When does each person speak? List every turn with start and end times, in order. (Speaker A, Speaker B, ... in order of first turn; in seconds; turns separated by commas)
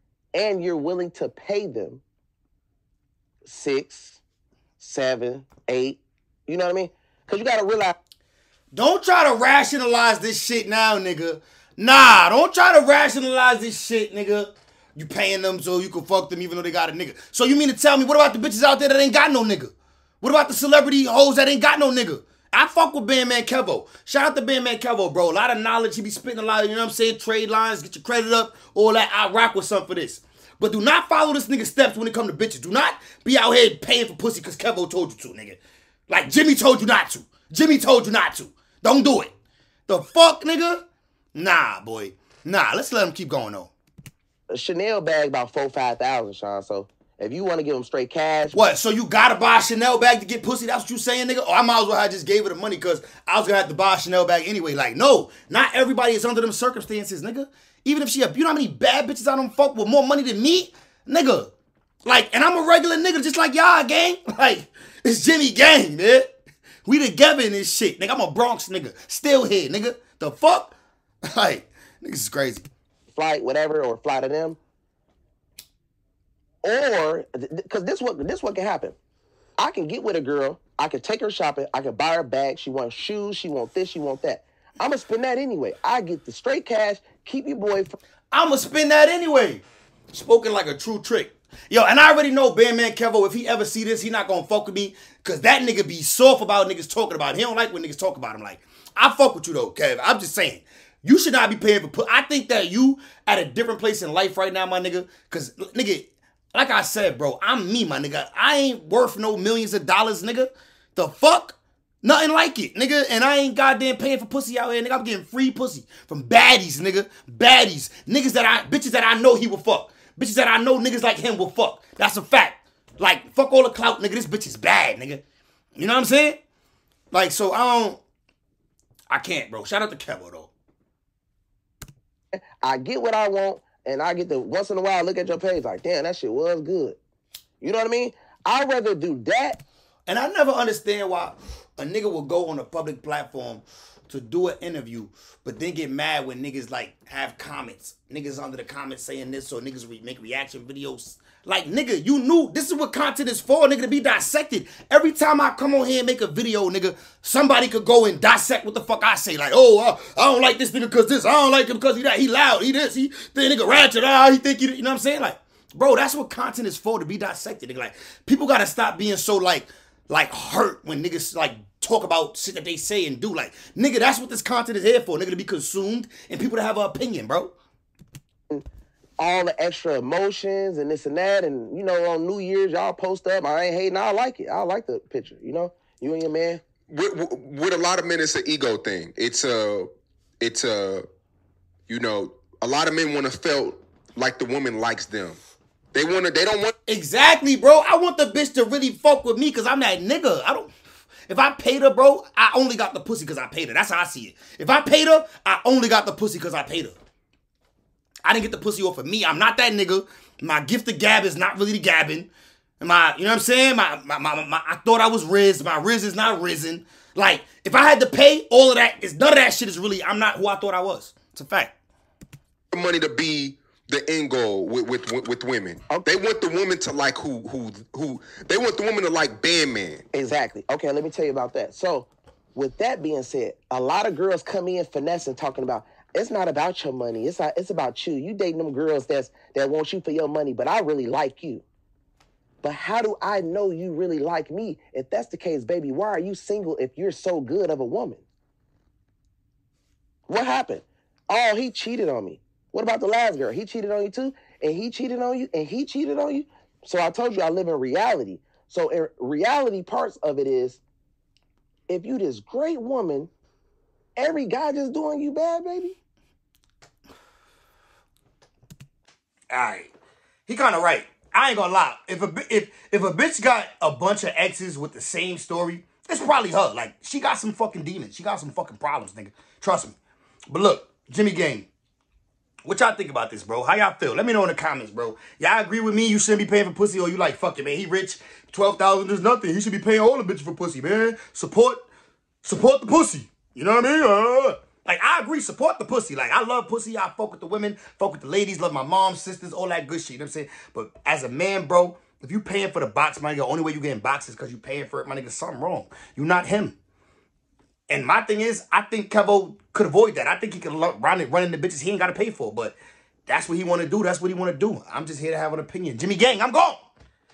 Speaker A: 0.3-2.0, Speaker A: 3.5-4.2, Speaker A: 4.8-8.0, Speaker B: 8.7-39.3, Speaker B: 39.9-40.8, Speaker B: 41.4-43.7, Speaker A: 44.5-48.6, Speaker B: 48.5-61.5, Speaker B: 62.0-66.3, Speaker B: 66.8-70.8, Speaker B: 71.3-72.7, Speaker A: 73.1-74.6, Speaker A: 76.6-79.0, Speaker A: 79.6-88.0, Speaker B: 88.3-125.2, Speaker B: 125.8-126.4, Speaker B: 127.1-128.0, Speaker B: 129.1-130.5, Speaker A: 132.6-137.0, Speaker A: 137.6-139.6, Speaker B: 140.1-177.5, Speaker A: 179.2-186.6, Speaker C: 186.9-191.1, Speaker C: 191.9-195.4, Speaker C: 195.9-196.7, Speaker B: 196.9-200.7, Speaker B: 201.3-207.0, Speaker B: 208.2-221.7, Speaker C: 222.7-230.0, Speaker A: 230.1-241.7, Speaker A: 242.6-248.2, Speaker A: 250.3-260.8, Speaker A: 261.9-263.3, Speaker A: 264.2-265.9, Speaker B: 269.5-269.9, Speaker B: 270.5-280.0, Speaker B: 280.5-281.7, Speaker B: 282.7-291.8, Speaker B: 292.4-306.8, Speaker B: 307.9-312.8, Speaker B: 313.3-316.9